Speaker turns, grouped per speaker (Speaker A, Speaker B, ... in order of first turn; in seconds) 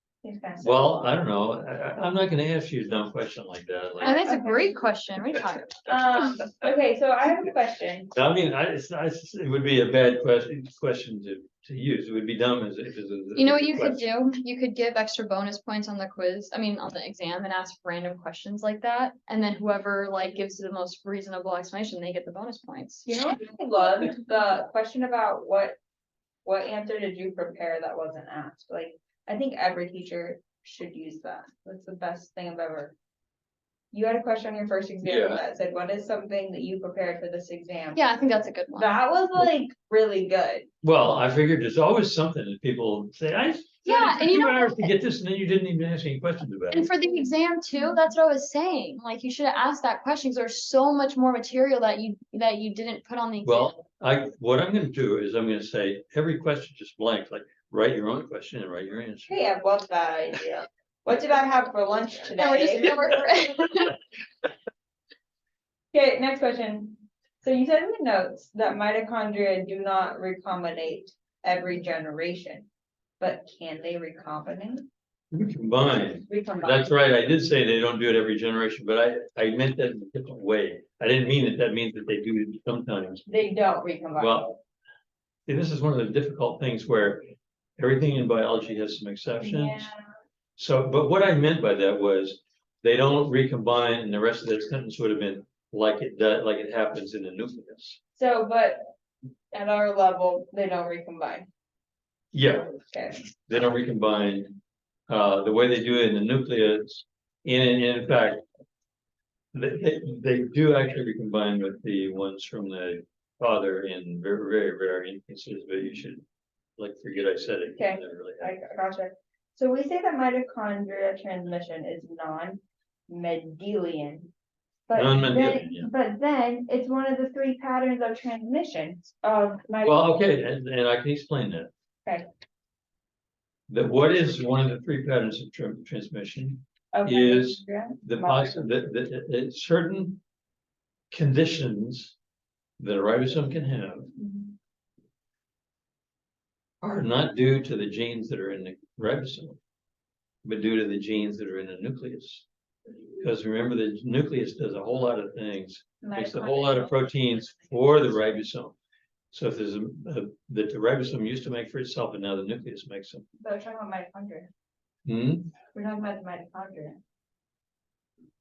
Speaker A: 0.2-0.9, 4.0-4.8, 5.8-8.1, 23.1-25.8, 26.4-32.9, 33.9-38.1, 38.8-40.7, 59.3-63.1, 65.9-72.7, 73.2-74.9, 75.8-76.9, 83.3-84.5, 89.4-90.1, 98.2-98.9, 99.5-101.5, 102.8-103.3, 117.8-124.3, 124.9-130.1, 136.9-138.7, 144.2-144.5, 156.0-157.7, 163.4-164.5, 165.7-167.0
Speaker B: 0.6-4.2, 8.1-14.0, 35.0-35.4, 40.8-46.9, 53.4-59.4, 75.3-83.2, 84.2-84.6, 85.5-89.9, 90.6-98.0, 102.3-102.7, 103.5-104.6, 105.1-108.4, 109.5-116.2, 116.8-118.5, 124.9-125.9, 129.8-131.7, 133.7-140.2, 141.1-142.1, 142.8-144.1, 146.8-149.6, 150.4-152.4, 153.2-158.8, 159.3-163.2, 165.1-165.5
Speaker C: 4.0-6.0, 13.3-23.1, 37.9-39.0, 43.8-44.9, 46.7-53.8, 62.3-64.0